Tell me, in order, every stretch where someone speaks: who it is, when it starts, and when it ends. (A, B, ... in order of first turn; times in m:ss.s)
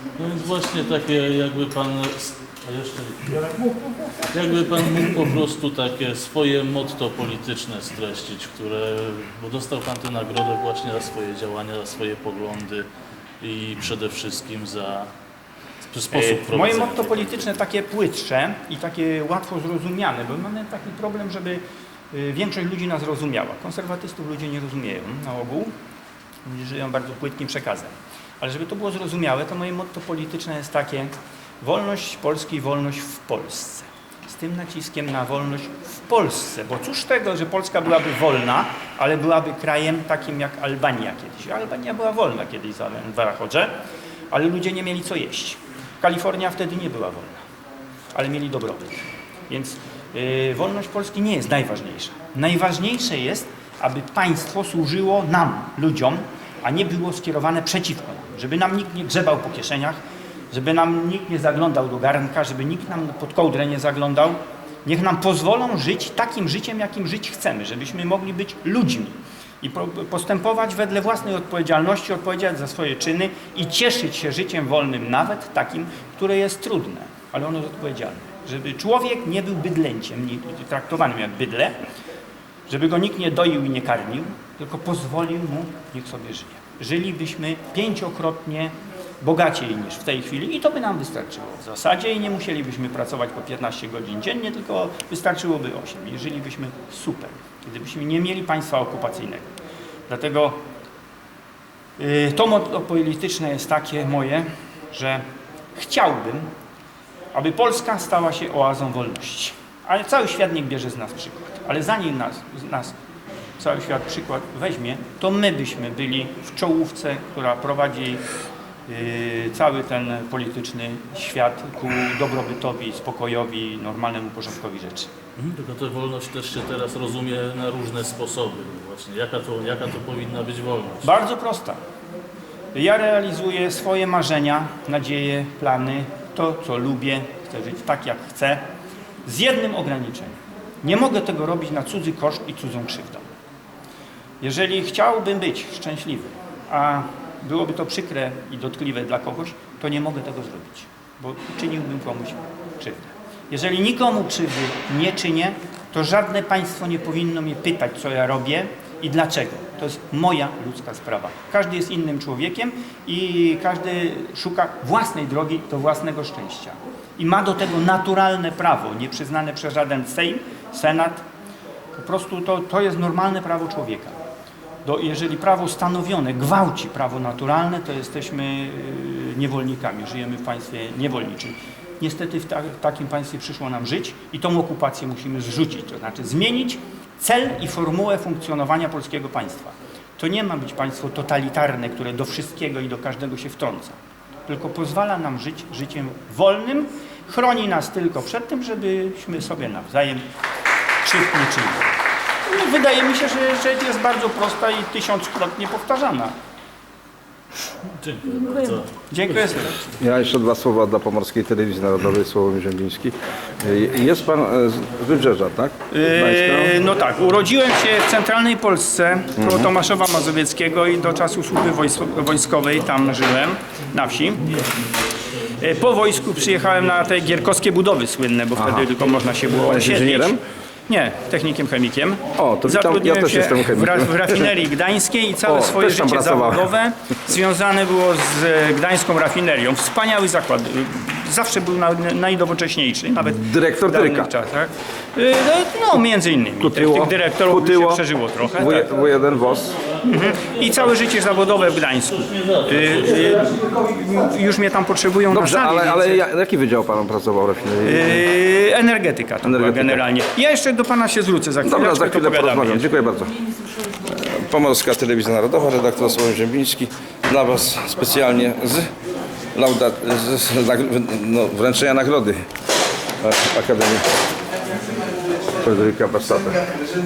0:00.2-0:03.5 A
0:04.2-0:12.8 A
0:13.4-0:15.1 A
0:15.8-0:17.6 A
0:16.1-0:25.7 B
0:26.4-0:43.7 B
0:44.3-0:47.4 B
0:48.2-1:00.0 B
1:00.5-1:21.8 B
1:22.7-1:39.5 B
1:40.1-1:40.6 B
1:42.0-1:45.2 B
1:45.8-1:46.5 B
1:47.3-1:52.9 B
1:53.6-1:58.2 B
1:58.9-2:05.1 B
2:05.4-2:11.2 A
2:11.0-2:11.8 B
2:12.7-2:18.6 B
2:19.2-2:23.3 B
2:24.4-2:51.2 B
2:51.9-2:54.2 B
2:54.8-3:14.0 B
3:14.5-3:20.2 B
3:21.0-3:21.9 B
3:22.5-3:26.3 B
3:28.0-3:29.6 A
3:29.1-3:29.8 B
3:30.0-3:36.7 C
3:35.9-3:44.8 B
3:39.4-3:39.7 C
3:45.6-4:08.9 B
3:48.6-3:48.9 C
3:49.6-3:50.4 C
3:52.4-3:54.5 C
3:55.5-3:56.7 C
4:03.2-4:04.3 C
4:06.6-4:09.7 C
4:10.0-4:16.2 B
4:12.3-4:13.3 A
4:15.3-4:18.2 C
4:17.8-4:22.9 B
4:19.4-4:20.0 C
4:21.6-4:28.9 C
4:29.6-4:32.4 C
4:33.2-4:34.1 C
4:35.5-4:36.7 C